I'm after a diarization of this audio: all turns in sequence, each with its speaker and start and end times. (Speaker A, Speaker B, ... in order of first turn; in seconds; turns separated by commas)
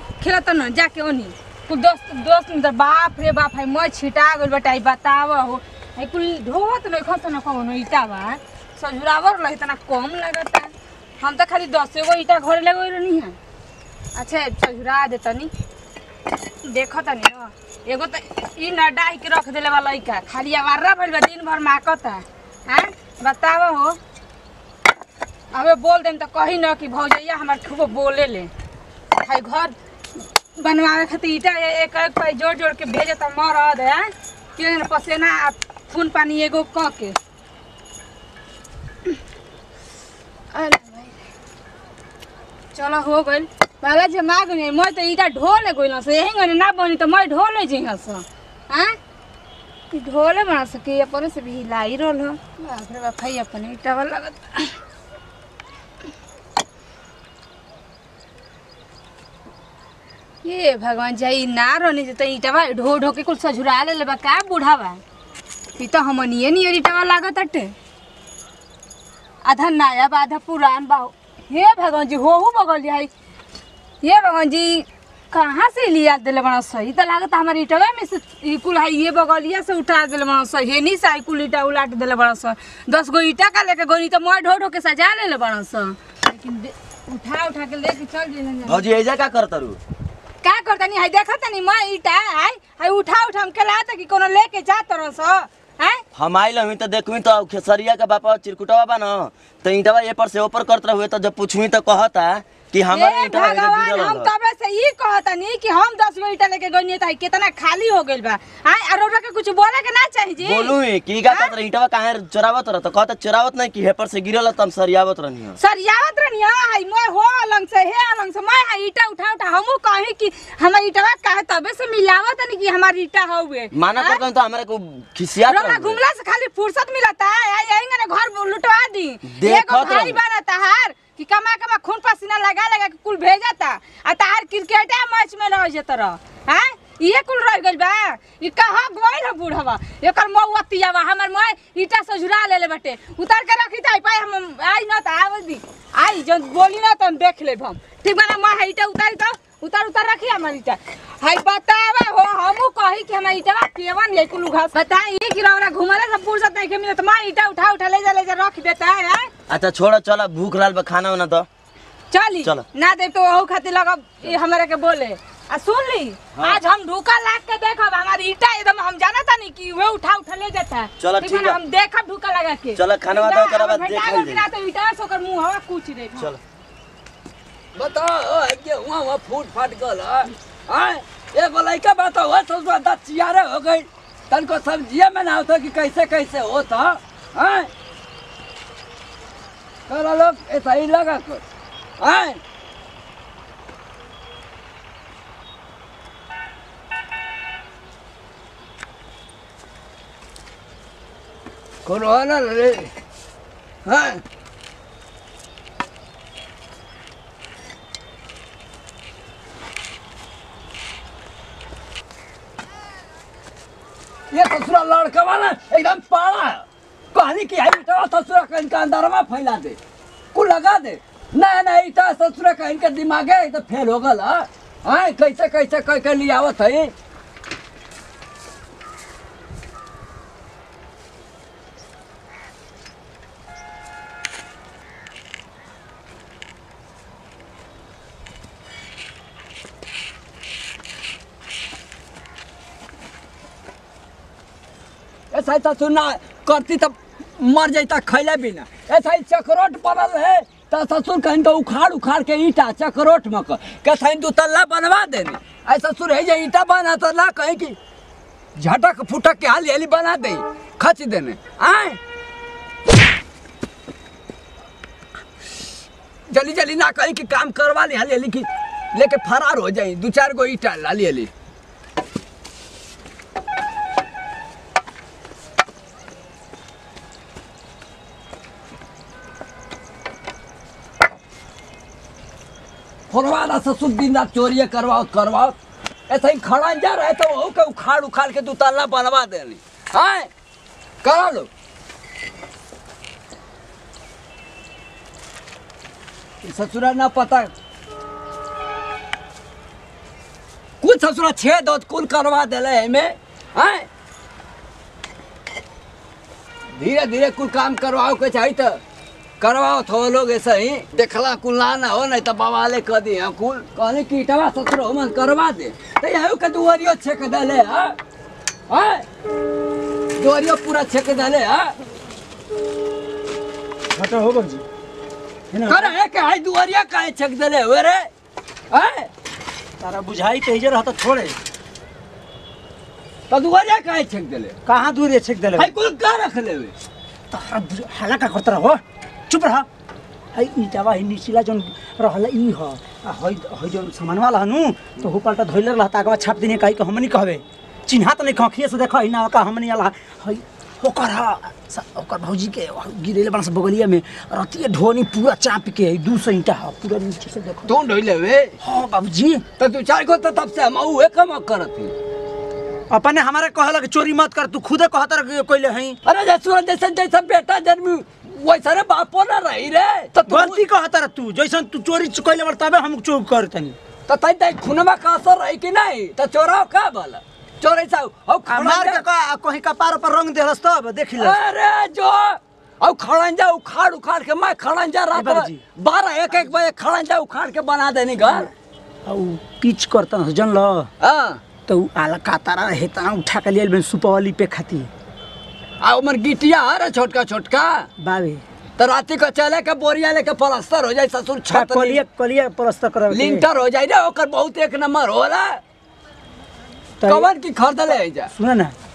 Speaker A: 0.2-13.4, Speaker A: 14.2-15.5, Speaker A: 16.6-24.0, Speaker A: 25.5-28.5, Speaker A: 29.2-37.1, Speaker A: 40.5-41.1, Speaker A: 42.7-49.0, Speaker A: 49.9-54.7, Speaker A: 60.4-65.0, Speaker A: 65.8-67.7, Speaker A: 69.4-73.1, Speaker A: 74.0-88.9, Speaker B: 88.7-89.8, Speaker A: 90.4-96.0, Speaker B: 96.1-104.3, Speaker A: 102.9-110.8, Speaker B: 110.4-115.6, Speaker A: 115.6-124.2, Speaker B: 123.7-126.0, Speaker A: 125.5-159.3, Speaker B: 129.3-130.2, Speaker B: 159.5-161.5, Speaker A: 162.1-176.3, Speaker B: 166.3-166.6, Speaker B: 171.0-171.6, Speaker B: 172.8-174.4, Speaker C: 177.7-187.7, Speaker C: 189.9-191.4, Speaker C: 192.0-192.4, Speaker C: 201.8-202.9, Speaker C: 203.8-204.2, Speaker C: 214.3-219.8, Speaker C: 220.3-226.9, Speaker C: 245.3-257.8, Speaker C: 258.6-262.0, Speaker C: 266.3-271.3, Speaker C: 283.1-285.5, Speaker C: 286.1-290.3, Speaker C: 291.0-291.5, Speaker C: 296.4-297.5, Speaker C: 300.8-303.9, Speaker C: 306.8-308.8, Speaker C: 309.4-317.9, Speaker C: 318.7-319.0, Speaker C: 320.2-321.7, Speaker D: 323.9-324.6, Speaker D: 325.5-325.9, Speaker C: 325.7-328.1, Speaker C: 328.7-329.1, Speaker D: 329.8-331.4, Speaker C: 333.3-334.5, Speaker D: 334.6-335.7, Speaker C: 335.6-336.7, Speaker D: 337.3-339.7, Speaker D: 340.3-357.7, Speaker C: 357.7-358.5, Speaker D: 358.6-359.4, Speaker C: 359.6-361.9, Speaker D: 362.9-366.0, Speaker C: 366.0-370.6, Speaker D: 370.2-373.8, Speaker C: 374.1-379.0, Speaker D: 378.5-381.4, Speaker C: 381.2-388.5, Speaker D: 385.1-385.6, Speaker D: 389.1-390.9, Speaker C: 391.0-391.4, Speaker D: 391.7-394.9, Speaker C: 395.8-397.9, Speaker D: 398.0-398.4, Speaker C: 398.8-402.0, Speaker D: 401.5-403.4, Speaker C: 403.1-405.6, Speaker D: 407.0-407.3, Speaker C: 407.1-408.3, Speaker D: 408.3-408.7